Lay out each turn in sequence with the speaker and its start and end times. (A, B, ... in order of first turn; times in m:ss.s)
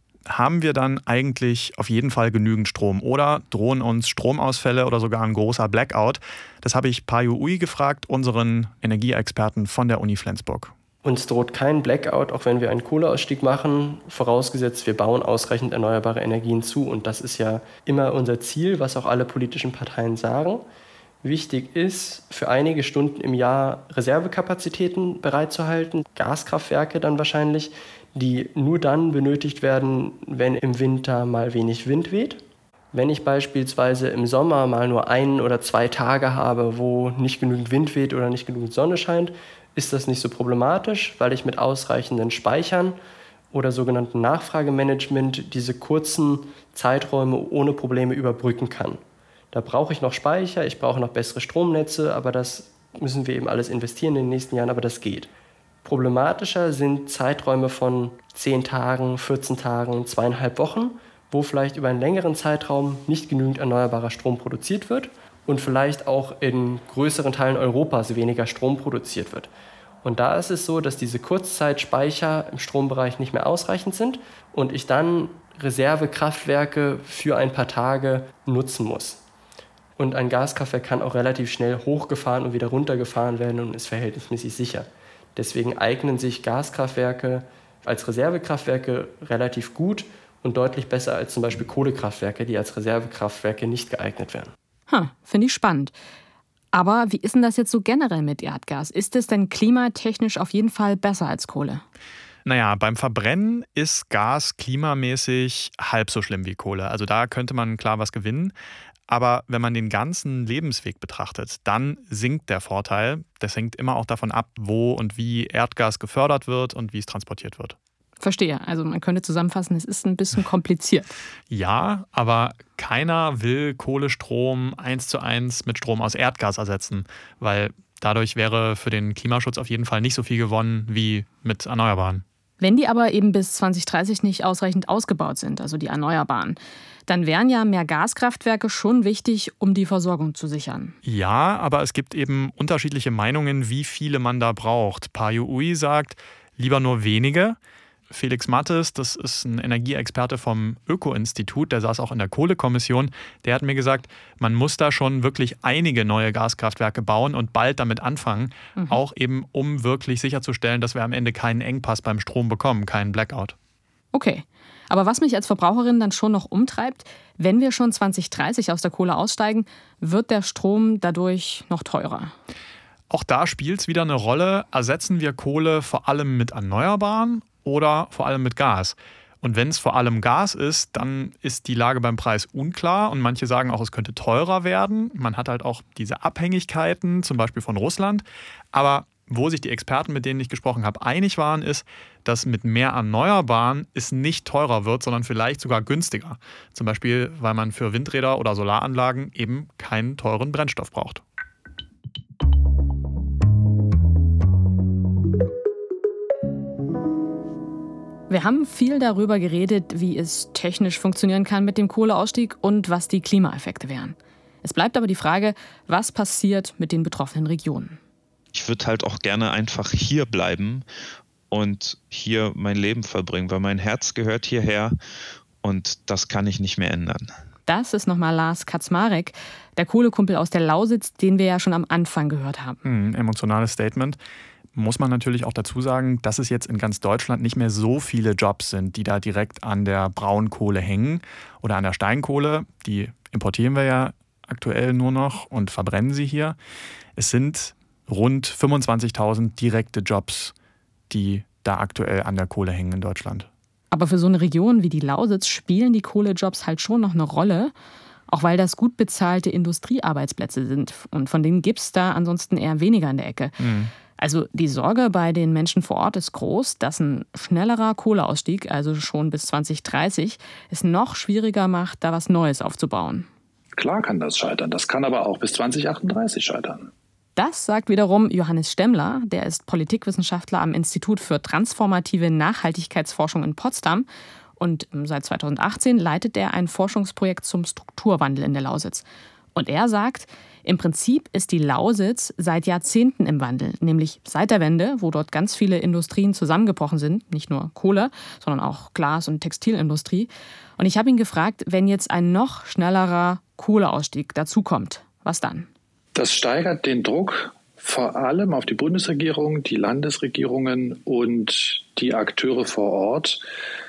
0:00.3-0:10.7 A
0:11.0-0:20.6 B
0:21.2-0:43.0 B
0:43.5-0:49.0 B
0:49.5-0:55.3 B
0:55.8-1:09.5 B
1:10.0-1:19.2 B
1:20.0-1:34.5 B
1:34.9-1:36.0 C
1:36.7-1:41.8 C
1:42.4-1:48.5 A
1:49.1-1:57.8 A
1:58.2-2:01.1 C
2:01.5-2:12.2 A
2:12.6-2:21.0 C
2:21.0-2:27.6 A
2:28.1-2:43.6 A
2:44.1-2:52.3 C
2:53.1-3:21.2 A
3:28.3-3:38.0 C
3:38.5-3:40.9 D
3:41.5-3:45.0 D
3:45.6-3:47.3 D
3:47.7-3:52.8 C
3:52.8-3:54.2 A
3:54.7-4:06.6 A
4:07.2-4:10.5 A
4:11.1-4:13.5 A
4:13.9-4:17.7 C
4:18.3-4:23.6 C
4:23.6-4:23.9 A
4:24.2-4:33.3 C
4:33.8-4:36.9 E
4:37.4-4:44.1 C
4:44.6-5:05.7 C
5:06.2-5:13.4 E